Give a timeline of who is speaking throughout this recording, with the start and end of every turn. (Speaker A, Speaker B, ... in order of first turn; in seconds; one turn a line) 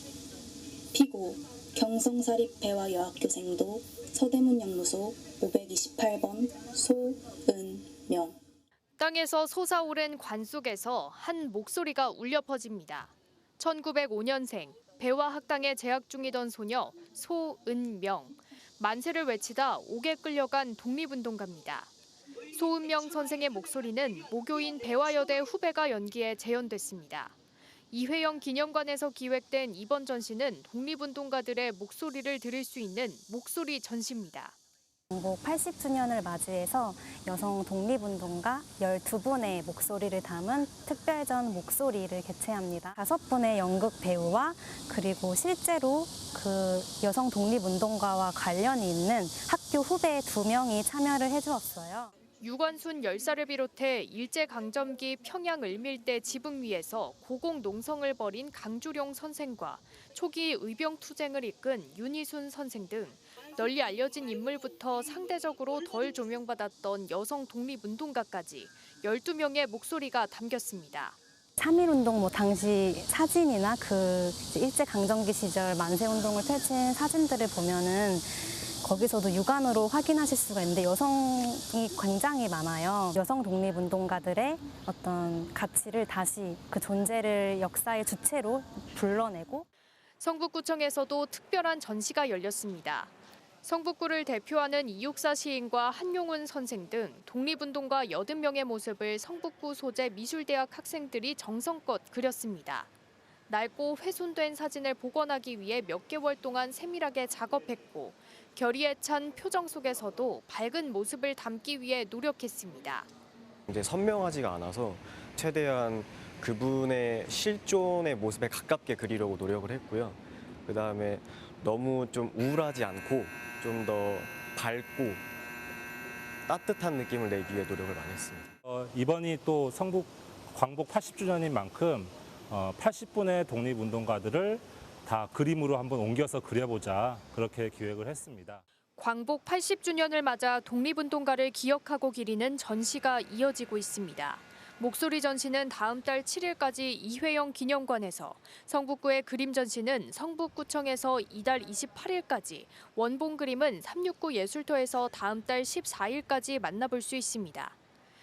Speaker A: 0.9-8.4
Speaker B: 9.0-21.9
Speaker B: 22.5-27.4
Speaker B: 27.9-34.5
Speaker C: 35.1-52.1
Speaker B: 52.4-71.2
Speaker C: 71.6-89.7
Speaker B: 90.2-93.1
Speaker B: 93.6-102.9
Speaker B: 103.5-113.1
Speaker D: 113.7-125.2
Speaker D: 126.5-128.5
Speaker E: 128.7-138.6
Speaker B: 139.0-157.8